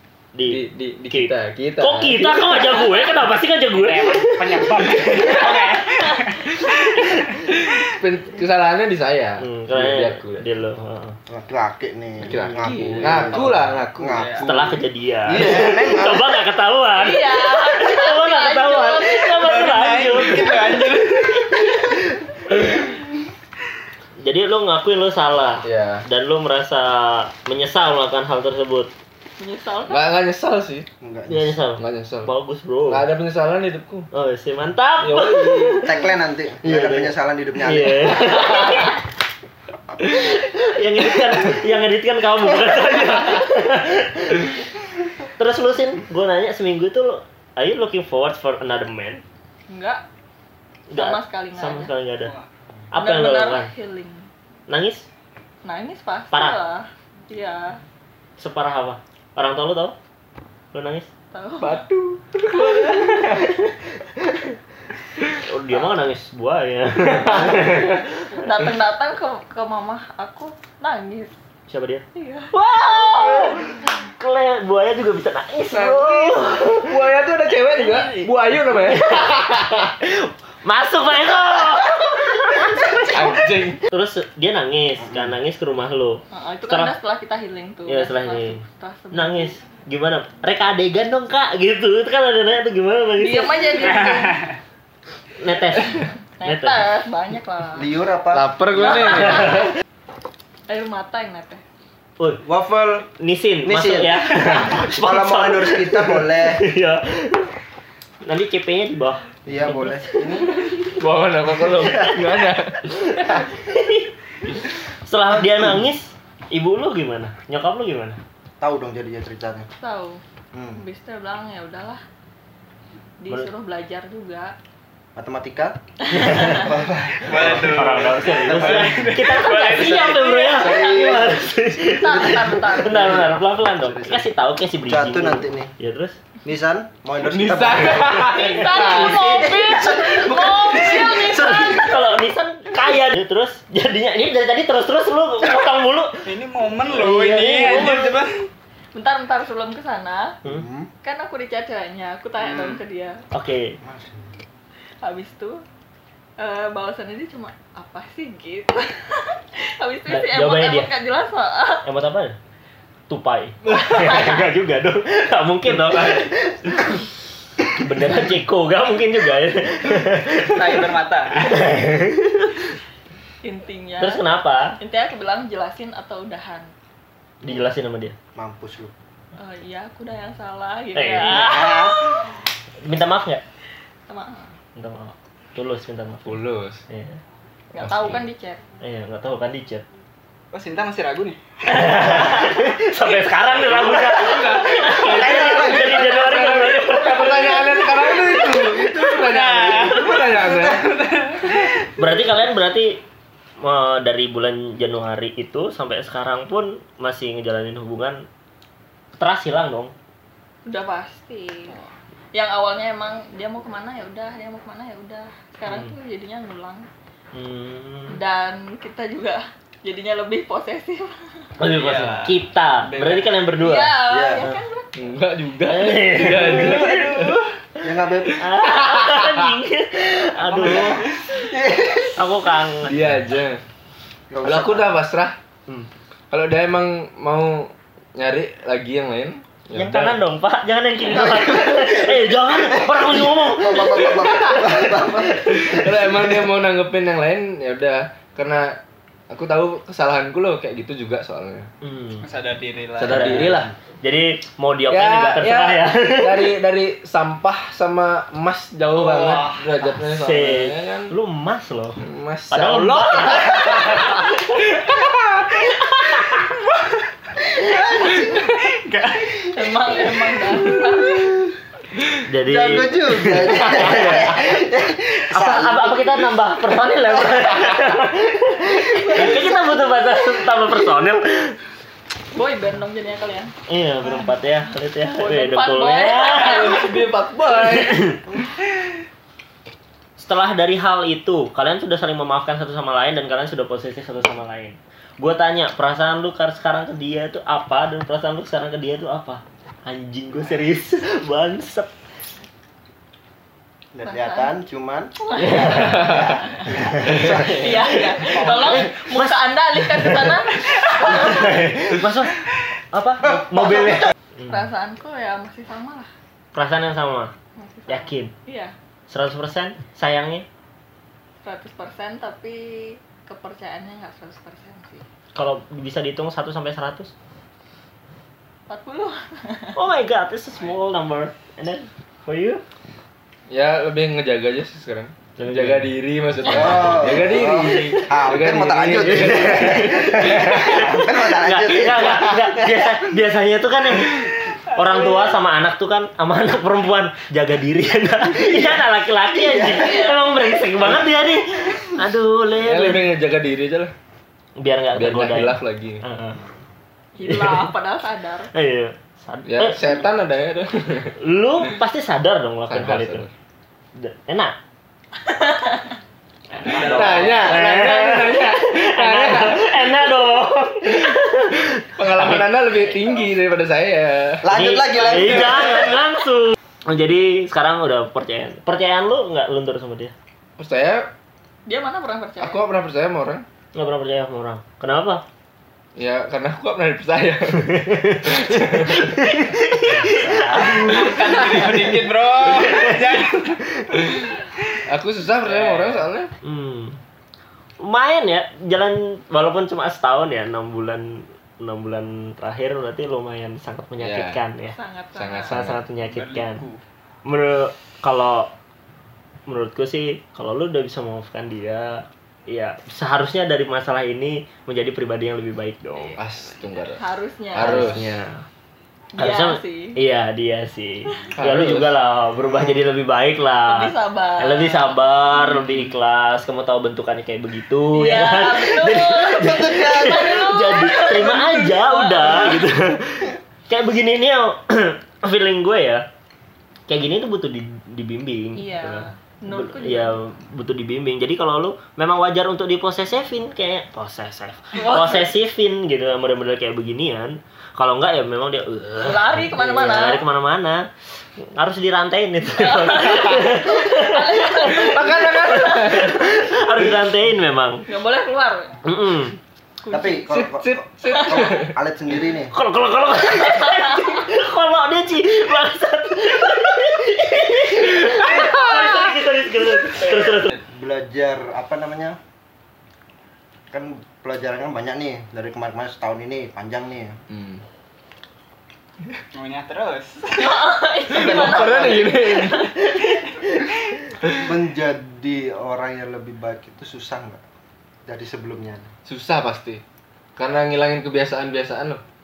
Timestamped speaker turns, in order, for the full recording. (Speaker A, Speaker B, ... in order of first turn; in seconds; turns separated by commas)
Speaker A: 0.3-5.6, Speaker B: 0.5-2.7, Speaker C: 3.7-7.8, Speaker B: 7.9-10.4, Speaker A: 9.4-11.2, Speaker D: 11.3-14.4, Speaker B: 12.2-14.8, Speaker A: 12.4-13.1, Speaker C: 13.0-14.4, Speaker A: 14.4-22.0, Speaker D: 15.3-16.3, Speaker E: 16.9-19.4, Speaker C: 19.3-21.9, Speaker A: 24.2-28.9, Speaker B: 25.6-26.1, Speaker E: 29.4-30.0, Speaker B: 29.9-30.9, Speaker D: 31.0-31.6, Speaker A: 31.3-33.1, Speaker B: 31.8-32.3, Speaker B: 32.9-34.1, Speaker A: 34.1-36.1, Speaker B: 35.0-35.9, Speaker D: 35.8-38.6, Speaker A: 36.6-39.0, Speaker A: 40.0-44.6, Speaker A: 45.4-49.2, Speaker E: 49.7-50.0, Speaker A: 50.9-52.3, Speaker E: 50.9-51.9, Speaker A: 52.9-53.7, Speaker E: 52.9-54.3, Speaker A: 54.7-55.1, Speaker E: 55.6-57.8, Speaker A: 56.3-56.6, Speaker A: 58.4-60.0, Speaker A: 60.7-61.1, Speaker E: 61.3-61.8, Speaker B: 61.6-63.4, Speaker A: 62.7-63.7, Speaker A: 65.3-68.4, Speaker B: 67.4-67.9, Speaker E: 68.3-71.3, Speaker A: 71.7-77.0, Speaker E: 72.1-72.5, Speaker B: 75.7-79.9, Speaker A: 77.8-86.9, Speaker B: 83.0-83.8, Speaker E: 86.3-89.6, Speaker A: 87.9-88.6, Speaker A: 89.1-93.9, Speaker E: 93.2-94.5, Speaker A: 95.4-96.8, Speaker E: 95.8-97.9, Speaker D: 97.8-98.5, Speaker B: 98.3-99.7, Speaker E: 98.7-99.7, Speaker E: 100.7-101.6, Speaker D: 102.4-103.1, Speaker A: 103.1-107.5, Speaker D: 103.6-106.7, Speaker A: 108.2-110.5, Speaker D: 109.5-110.5, Speaker B: 110.8-113.4, Speaker A: 112.9-118.2, Speaker D: 118.6-119.7, Speaker E: 119.8-120.2, Speaker D: 120.5-120.8, Speaker E: 120.7-122.0, Speaker E: 123.2-124.5, Speaker D: 125.2-127.9, Speaker E: 126.1-126.7, Speaker C: 127.2-131.0, Speaker A: 127.3-136.2, Speaker D: 128.6-129.1, Speaker E: 130.5-131.3, Speaker D: 130.6-131.1, Speaker E: 131.8-133.2, Speaker D: 132.9-133.3, Speaker D: 133.8-134.2, Speaker D: 134.9-135.7, Speaker D: 136.4-141.8, Speaker B: 137.3-139.4, Speaker E: 138.2-141.9, Speaker A: 141.1-146.3, Speaker C: 146.2-148.5, Speaker A: 146.9-148.2, Speaker E: 148.9-150.4, Speaker D: 150.4-150.9, Speaker E: 151.0-153.2, Speaker C: 152.4-152.8, Speaker A: 153.3-153.8, Speaker D: 153.8-154.4, Speaker E: 155.0-155.6, Speaker E: 156.4-161.9, Speaker A: 160.1-160.9, Speaker A: 161.8-162.4, Speaker A: 163.1-167.1, Speaker E: 163.7-164.2, Speaker A: 167.6-170.9, Speaker C: 170.4-171.8, Speaker A: 171.4-172.7, Speaker E: 173.4-174.2, Speaker A: 174.0-174.8, Speaker E: 174.8-176.7, Speaker A: 177.4-178.2, Speaker D: 178.3-178.9, Speaker E: 179.4-181.9, Speaker A: 180.9-182.2, Speaker A: 182.8-183.4, Speaker E: 184.1-184.5, Speaker A: 184.8-187.2, Speaker B: 186.3-186.8, Speaker E: 187.7-188.6, Speaker A: 187.8-188.2, Speaker A: 188.8-189.8, Speaker C: 190.5-192.6, Speaker A: 191.6-197.8, Speaker C: 193.7-195.2, Speaker B: 194.2-200.9, Speaker C: 198.9-201.9, Speaker A: 202.0-203.0, Speaker A: 203.6-208.2, Speaker A: 209.2-209.9, Speaker E: 210.7-211.8, Speaker E: 212.3-216.9, Speaker A: 215.7-215.9, Speaker A: 217.3-218.2, Speaker E: 218.1-221.5, Speaker A: 221.6-224.6, Speaker C: 221.6-223.3, Speaker E: 223.6-224.9, Speaker D: 224.1-224.5, Speaker B: 224.9-227.4, Speaker A: 225.6-227.3, Speaker C: 226.6-227.4, Speaker D: 227.8-228.5, Speaker A: 228.4-231.2, Speaker C: 230.4-231.5, Speaker D: 231.4-232.2, Speaker A: 232.1-233.0, Speaker B: 232.8-233.6, Speaker D: 234.3-235.0, Speaker B: 234.4-235.4, Speaker B: 236.3-240.2, Speaker A: 239.8-244.7, Speaker D: 241.4-242.2, Speaker D: 242.7-246.4, Speaker B: 244.8-248.8, Speaker B: 249.3-251.7, Speaker A: 251.8-252.2, Speaker C: 252.2-253.5, Speaker B: 253.0-253.7, Speaker A: 253.0-256.5, Speaker B: 254.9-261.1, Speaker C: 258.9-259.7, Speaker A: 260.0-264.4, Speaker B: 262.0-264.0, Speaker C: 262.9-264.2, Speaker C: 265.1-265.6, Speaker C: 266.4-266.9, Speaker D: 267.5-268.5, Speaker C: 268.1-269.5, Speaker E: 269.5-271.4, Speaker A: 272.3-274.6, Speaker D: 272.5-276.1, Speaker A: 275.3-281.6, Speaker D: 278.9-279.5, Speaker E: 282.3-283.5, Speaker A: 283.7-286.8, Speaker E: 285.1-287.0, Speaker B: 286.3-288.1, Speaker A: 287.6-288.2, Speaker A: 290.2-301.9, Speaker D: 303.9-305.1, Speaker E: 304.0-304.5, Speaker E: 305.2-311.6, Speaker B: 305.4-306.5, Speaker D: 307.0-307.4, Speaker B: 307.1-307.7, Speaker A: 308.1-310.4, Speaker C: 308.2-308.6, Speaker A: 311.0-314.1, Speaker E: 314.4-316.1, Speaker A: 316.5-317.3, Speaker E: 317.6-318.7, Speaker A: 317.9-318.3, Speaker A: 319.1-320.5, Speaker E: 321.4-325.0, Speaker A: 325.4-327.1, Speaker E: 328.7-329.8, Speaker A: 329.8-332.6, Speaker B: 333.5-340.8, Speaker A: 335.4-335.9, Speaker D: 336.5-343.0, Speaker A: 336.5-338.0, Speaker A: 339.2-353.1, Speaker E: 349.7-350.1, Speaker B: 352.6-353.9, Speaker A: 354.6-356.4, Speaker B: 354.9-356.0, Speaker E: 357.2-358.5, Speaker A: 357.2-357.7, Speaker A: 358.5-360.0, Speaker B: 359.5-361.1, Speaker A: 361.2-363.2, Speaker B: 362.7-363.3, Speaker A: 364.0-364.5, Speaker E: 365.2-365.9, Speaker C: 366.5-367.6, Speaker A: 366.6-372.6, Speaker B: 366.6-369.8, Speaker B: 371.0-374.5, Speaker D: 374.4-375.9, Speaker A: 374.5-380.1, Speaker B: 380.6-381.1, Speaker E: 381.6-382.6, Speaker B: 382.4-383.4, Speaker A: 383.7-385.2, Speaker B: 386.0-389.4, Speaker A: 387.9-391.6, Speaker D: 389.9-391.0, Speaker C: 390.6-394.4, Speaker B: 394.9-396.3, Speaker C: 395.5-396.0, Speaker A: 396.4-397.0, Speaker A: 397.8-404.8, Speaker B: 404.0-404.4, Speaker E: 404.7-405.5, Speaker B: 405.1-405.8, Speaker A: 405.5-406.6, Speaker C: 406.0-406.8, Speaker A: 407.2-408.5, Speaker A: 409.5-416.2, Speaker B: 416.2-418.1, Speaker E: 417.0-418.0, Speaker A: 417.6-418.4, Speaker E: 419.1-420.0, Speaker A: 419.2-436.1, Speaker B: 421.4-421.9, Speaker E: 423.7-425.0, Speaker E: 427.9-432.6, Speaker D: 429.4-430.3, Speaker A: 436.9-457.8, Speaker E: 438.6-440.2, Speaker E: 449.0-450.2, Speaker E: 452.6-456.1, Speaker B: 454.6-456.3, Speaker E: 457.9-458.8, Speaker A: 458.8-459.4, Speaker D: 459.9-462.5, Speaker B: 460.0-461.8, Speaker A: 462.5-470.6, Speaker D: 470.7-472.2, Speaker D: 473.7-477.2, Speaker B: 477.3-477.6, Speaker C: 479.3-480.6, Speaker E: 480.4-482.8, Speaker B: 481.1-482.8, Speaker C: 481.2-482.1, Speaker D: 484.4-487.4, Speaker D: 488.1-488.9, Speaker B: 489.1-489.8, Speaker B: 490.4-492.0